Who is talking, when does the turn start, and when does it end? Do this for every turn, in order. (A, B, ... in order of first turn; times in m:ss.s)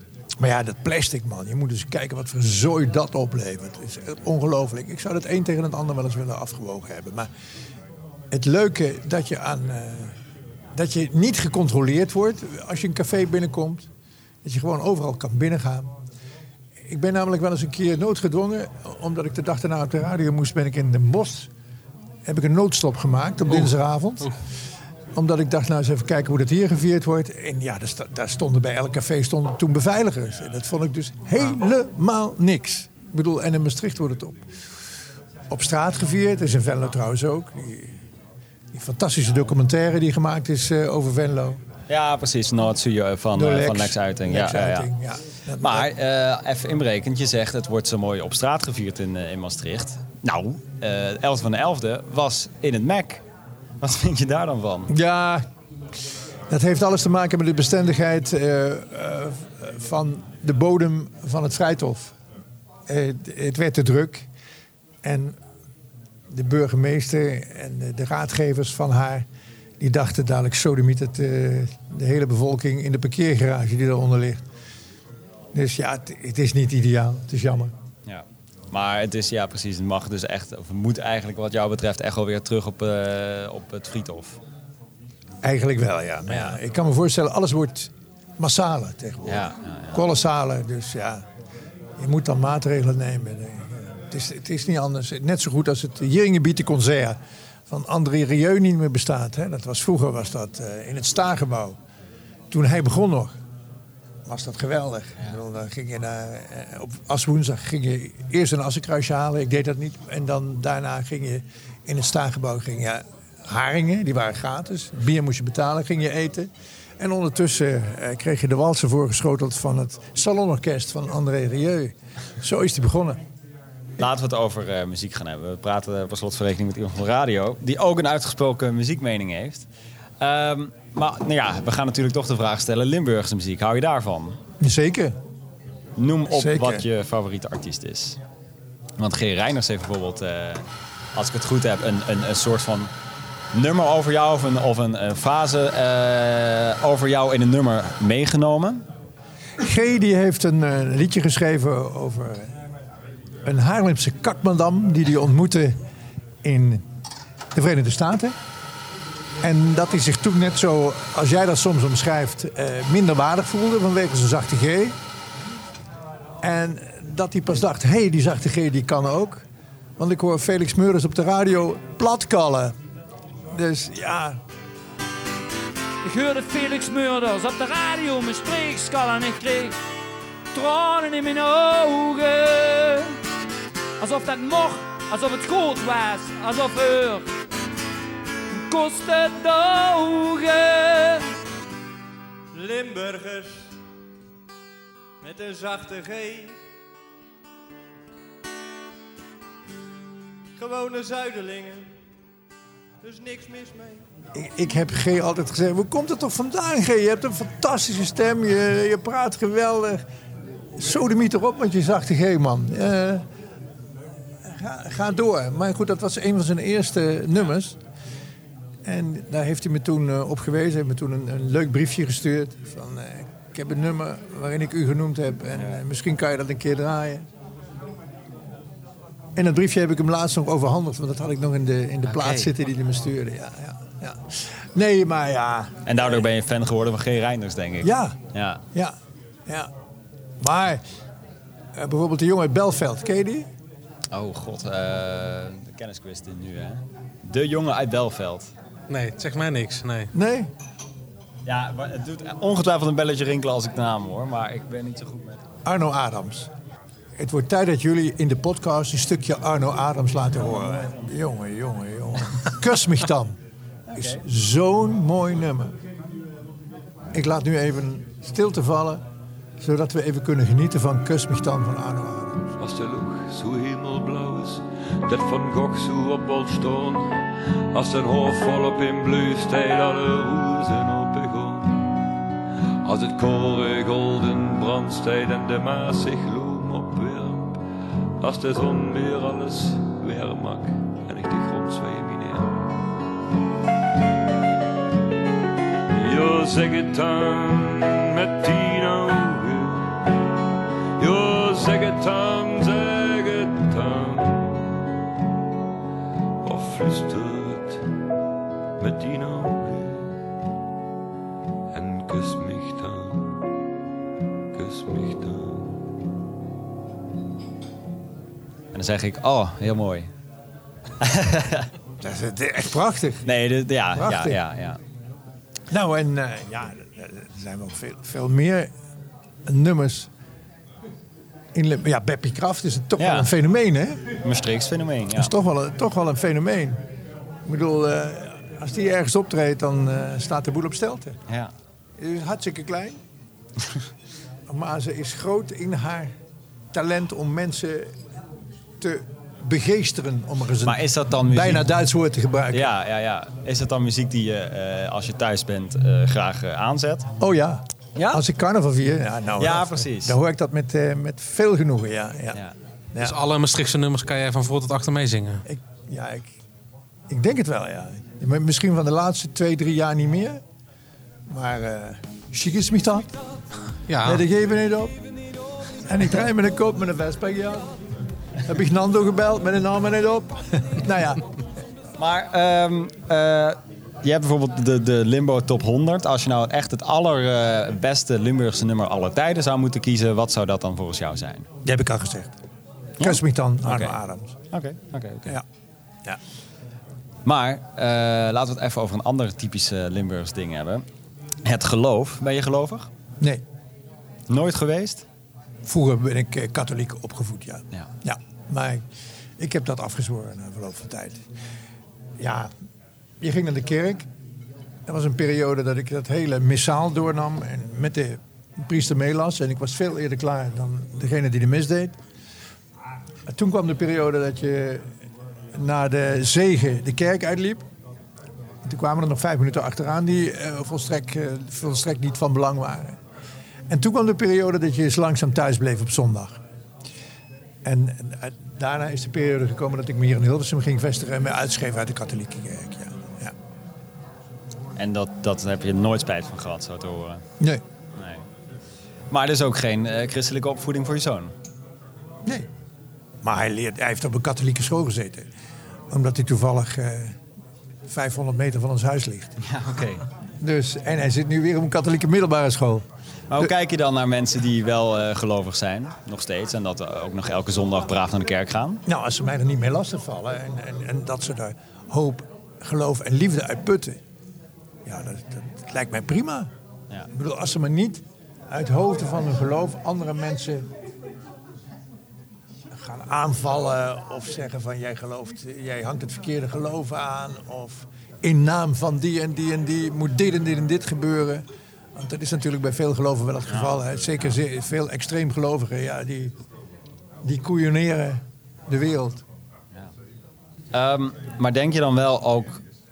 0:00.4-0:07.3 A
0:08.3-0:10.2 A
0:10.8-0:13.9 A
0:14.4-0:15.9 A
0:16.8-0:21.5 A
0:22.2-0:24.3 A
0:23.5-0:24.4 B
0:25.1-0:34.5 A
0:35.5-0:38.0 A
0:38.7-0:41.6 A
0:41.9-0:44.9 C
0:43.3-0:45.9 A
0:45.6-0:53.2 C
0:53.8-0:54.9 C
0:54.9-0:55.4 A
0:56.5-1:02.1 A
1:02.9-1:04.3 A
1:05.0-1:05.4 A
1:06.3-1:09.3 A
1:09.8-1:14.4 A
1:15.5-1:17.7 A
1:18.1-1:24.4 C
1:25.4-1:31.2 A
1:26.3-1:26.6 C
1:29.2-1:30.0 C
1:32.0-1:41.8 A
1:42.5-1:43.4 A
1:44.2-2:03.2 A
2:04.0-2:09.7 C
2:10.2-2:14.4 C
2:14.6-2:15.2 A
2:16.0-2:18.2 C
2:16.3-2:16.8 A
2:19.0-2:22.9 C
2:23.5-2:28.8 C
2:29.6-2:32.6 A
2:33.4-2:35.8 A
2:36.4-2:36.8 A
2:37.5-2:38.4 A
2:39.4-2:45.0 A
2:46.4-2:49.4 A
2:50.0-2:52.8 A
2:53.5-2:54.4 A
2:56.0-2:59.8 D
3:00.5-3:03.2 D
3:04.0-3:07.3 D
3:08.5-3:11.3 D
3:12.5-3:13.8 E
3:15.2-3:16.6 E
3:20.6-3:22.0 E
3:23.0-3:24.0 E
3:24.3-3:30.0 A
3:30.7-3:33.3 A
3:34.4-3:37.8 A
3:38.8-3:47.3 A
3:49.3-3:56.2 A
3:52.0-3:52.5 C
3:55.8-3:58.6 C
3:57.8-3:58.2 A
3:58.7-3:59.7 A
4:00.4-4:00.8 A
4:01.7-4:03.5 A
4:04.1-4:08.5 C
4:08.9-4:10.1 B
4:10.1-4:10.5 A
4:11.4-4:15.4 C
4:15.6-4:16.5 A
4:17.2-4:23.4 A
4:20.8-4:21.1 C
4:23.9-4:24.2 C
4:23.9-4:25.8 A
4:27.1-4:29.0 A
4:29.6-4:32.5 A
4:32.6-4:41.8 F
4:42.8-4:47.6 F
4:48.2-4:52.6 F
4:55.9-5:00.2 F
5:01.0-5:04.7 F
5:06.4-5:07.9 F
5:08.8-5:10.2 F
5:11.7-5:13.4 F
5:14.5-5:15.8 F
5:18.7-5:20.1 C
5:21.0-5:21.7 C
5:22.0-5:23.3 A
5:23.2-5:24.8 C
5:23.9-5:24.4 A
5:25.7-5:28.7 A
5:29.4-5:30.1 A
5:31.5-5:34.0 A
5:33.0-5:33.3 C
5:34.2-5:35.3 C
5:35.1-5:36.8 A
5:37.4-5:41.2 A
5:42.0-5:43.0 A
5:44.5-5:46.2 A
5:46.7-5:48.0 A
5:48.8-5:52.7 A
5:50.6-5:51.7 C
5:52.5-5:57.1 C
5:57.2-6:02.4 A
5:58.0-5:58.2 C
5:59.4-6:00.2 C
6:03.0-6:05.4 B
6:05.4-6:06.4 A
6:07.1-6:10.4 A
6:11.3-6:13.2 A
6:13.9-6:14.2 B
6:14.0-6:15.0 A
6:15.8-6:17.7 A
6:18.4-6:21.4 A
6:22.0-6:31.5 C
6:31.6-6:32.3 A
6:33.0-6:34.0 C
6:33.0-6:34.3 A
6:34.5-6:35.4 C
6:37.2-6:40.8 C
6:41.4-6:42.9 C
6:44.3-6:45.0 C
6:45.6-6:48.9 A
6:49.4-6:51.2 A
6:52.2-6:52.5 A
6:53.2-6:54.1 A
6:54.9-7:02.0 A
7:03.3-7:04.9 A
7:05.5-7:07.7 A
7:08.6-7:13.0 A
7:13.7-7:16.4 A
7:17.6-7:23.3 A
7:24.8-7:27.2 C
7:28.0-7:28.2 C
7:29.1-7:31.3 C
7:33.2-7:35.3 A
7:35.9-7:37.2 A
7:37.9-7:39.4 A
7:39.4-7:40.0 C
7:40.4-7:43.5 A
7:43.3-7:48.8 C
7:48.8-7:54.0 A
7:54.8-7:56.5 A
7:57.1-8:00.7 A
8:02.7-8:16.3 A
8:13.5-8:14.4 C
8:17.2-8:19.2 A
8:20.7-8:22.6 C